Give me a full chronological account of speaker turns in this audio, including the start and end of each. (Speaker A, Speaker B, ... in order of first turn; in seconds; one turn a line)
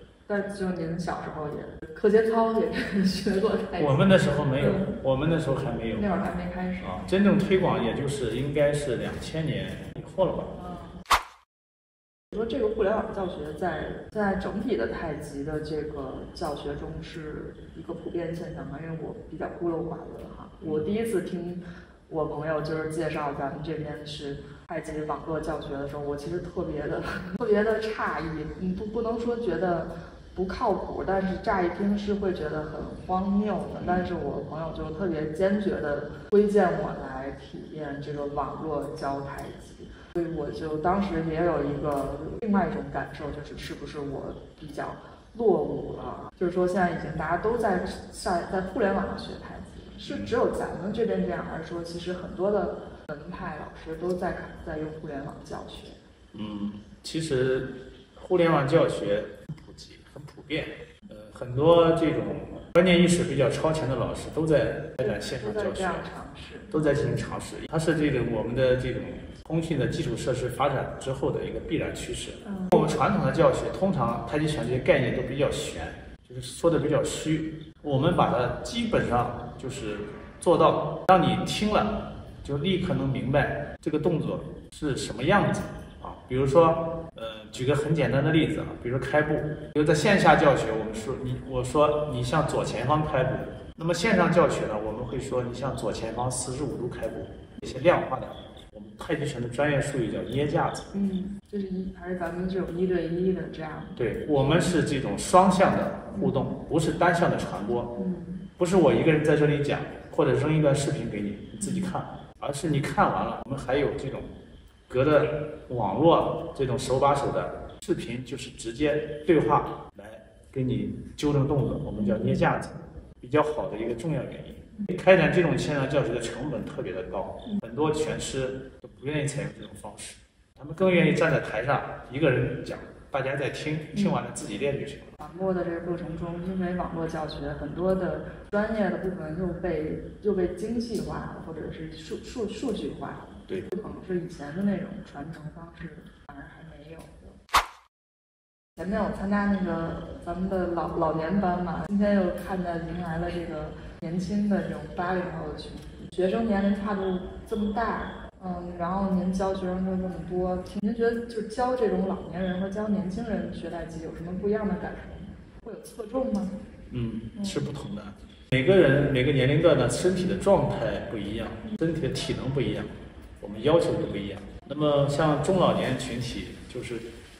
Speaker A: 0.3-4.0
Speaker B: 3.8-6.1
Speaker A: 4.6-5.0
Speaker A: 5.9-7.0
Speaker B: 6.8-10.5
Speaker A: 10.5-11.0
Speaker A: 12.3-56.0
Speaker B: 20.6-20.9
Speaker B: 56.3-66.1
Speaker A: 65.0-67.0
Speaker B: 66.7-100.9
Speaker A: 72.4-72.7
Speaker A: 100.9-104.7
Speaker B: 104.0-108.0
Speaker A: 106.2-106.5
Speaker A: 107.9-108.5
Speaker B: 108.6-114.3
Speaker A: 111.6-111.9
Speaker B: 114.9-135.2
Speaker A: 122.0-122.4
Speaker A: 135.2-147.4
Speaker A: 148.8-166.6
Speaker B: 166.9-177.1
Speaker A: 167.4-167.6